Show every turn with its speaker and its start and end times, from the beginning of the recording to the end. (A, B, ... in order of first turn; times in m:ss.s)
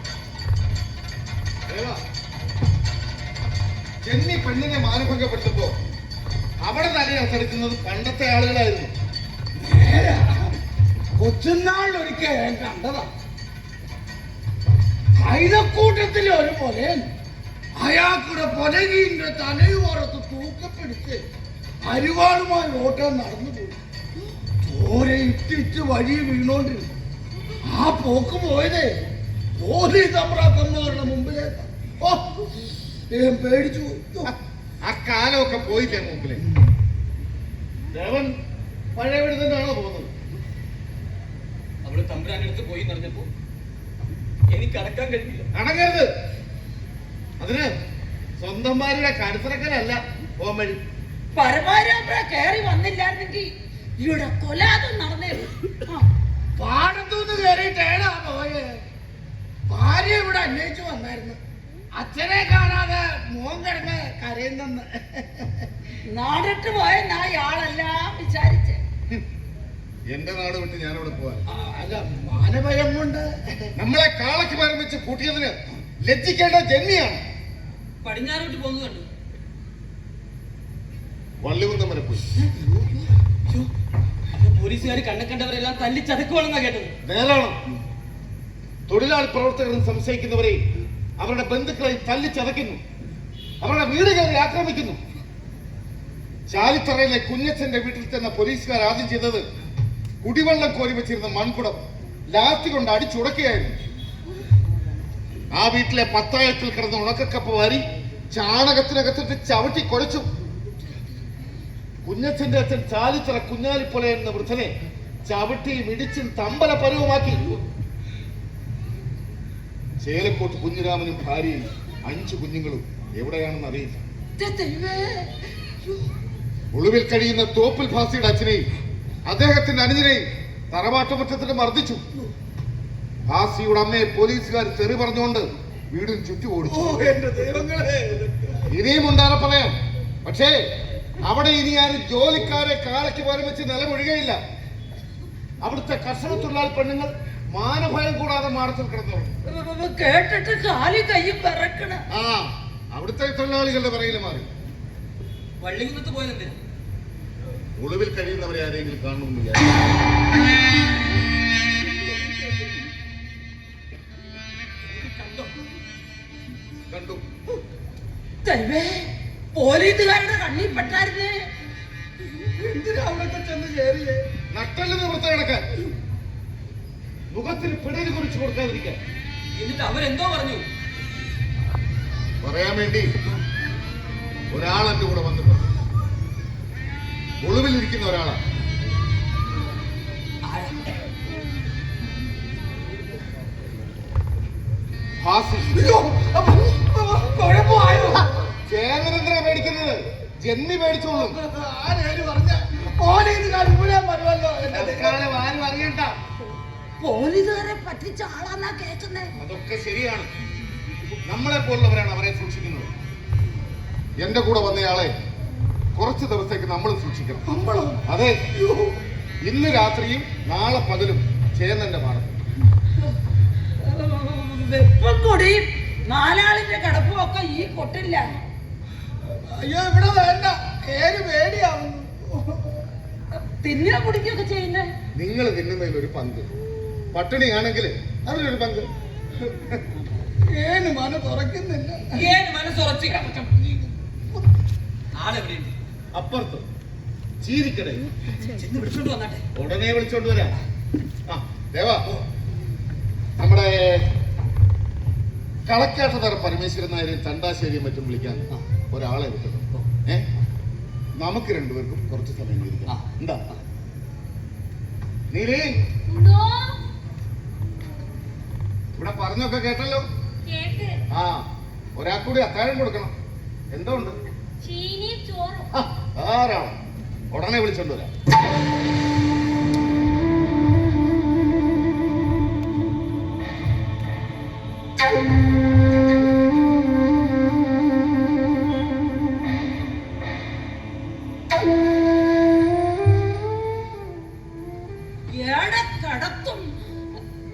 0:01.7-0:02.0 A
0:04.0-0:05.7 A
0:06.6-0:08.9 A
0:09.6-0:10.5 B
0:11.2-0:13.1 B
0:15.2-0:17.1 B
0:17.8-0:21.2 B
0:21.8-0:23.8 B
0:24.6-0:26.9 B
0:27.6-0:28.9 B
0:29.6-0:32.4 B
0:33.1-0:34.3 B
0:34.2-0:36.4 A
0:37.9-0:38.3 A
0:38.9-0:40.1 A
0:41.8-0:43.3 C
0:44.5-0:45.4 C
0:45.5-0:46.1 A
0:47.4-0:47.7 A
0:48.4-0:50.8 A
0:51.3-0:56.0 D
0:56.6-0:58.8 B
0:59.7-1:01.4 B
1:01.9-1:05.7 B
1:06.1-1:08.8 D
1:10.1-1:11.4 A
1:11.5-1:13.7 B
1:13.8-1:17.2 A
1:18.0-1:19.1 C
1:21.4-1:22.2 A
1:24.3-1:26.9 C
1:27.0-1:27.6 A
1:28.9-1:30.6 A
1:31.2-1:32.8 A
1:33.6-1:35.0 A
1:36.5-1:39.5 A
1:40.2-1:43.7 A
1:45.5-1:50.3 A
1:52.0-1:54.7 A
1:55.2-1:57.6 A
2:00.0-2:04.0 A
2:04.4-2:05.3 D
2:06.7-2:08.6 A
2:09.2-2:12.0 A
2:13.3-2:17.0 A
2:16.6-2:18.7 B
2:18.7-2:20.6 A
2:21.2-2:24.4 A
2:25.6-2:29.3 A
2:29.5-2:32.0 D
2:32.1-2:34.5 A
2:35.6-2:36.6 C
2:37.8-2:39.9 A
2:44.8-2:45.5 C
2:46.9-2:47.2 A
2:48.4-2:51.3 D
2:52.3-2:54.2 B
2:54.5-2:55.6 A
2:57.3-2:59.0 A
2:59.6-3:00.6 C
3:02.4-3:03.1 A
3:04.5-3:05.7 A
3:07.4-3:08.4 A
3:10.4-3:10.8 C
3:15.2-3:15.8 A
3:15.7-3:18.3 B
3:18.6-3:21.4 A
3:21.2-3:25.2 B
3:24.7-3:26.1 A
3:27.0-3:29.3 D
3:29.4-3:30.3 A
3:31.2-3:32.9 A
3:34.2-3:35.1 A
3:35.9-3:37.4 A
3:37.4-3:39.0 B
3:38.0-3:38.4 A
3:39.4-3:42.4 A
3:43.8-3:48.2 D
3:49.3-3:52.8 B
3:53.4-3:54.9 D
3:55.2-3:56.5 A
3:57.1-3:58.9 A
3:59.4-3:59.8 A
4:00.4-4:02.3 B
4:02.1-4:03.3 C
4:03.3-4:03.8 B
4:05.1-4:05.7 C
4:06.1-4:06.6 A
4:07.4-4:08.0 A
4:08.4-4:09.4 C
4:09.5-4:10.5 A
4:11.3-4:12.0 A
4:13.4-4:14.0 A
4:15.6-4:20.2 A
4:21.2-4:23.4 A
4:22.9-4:23.6 C
4:25.3-4:25.8 A
4:26.1-4:26.7 E
4:28.9-4:30.1 A
4:30.5-4:31.0 E
4:31.1-4:33.1 A
4:33.7-4:34.2 A
4:34.6-4:35.7 E
4:35.7-4:36.8 A
4:37.3-4:38.1 A
4:55.3-4:56.8 D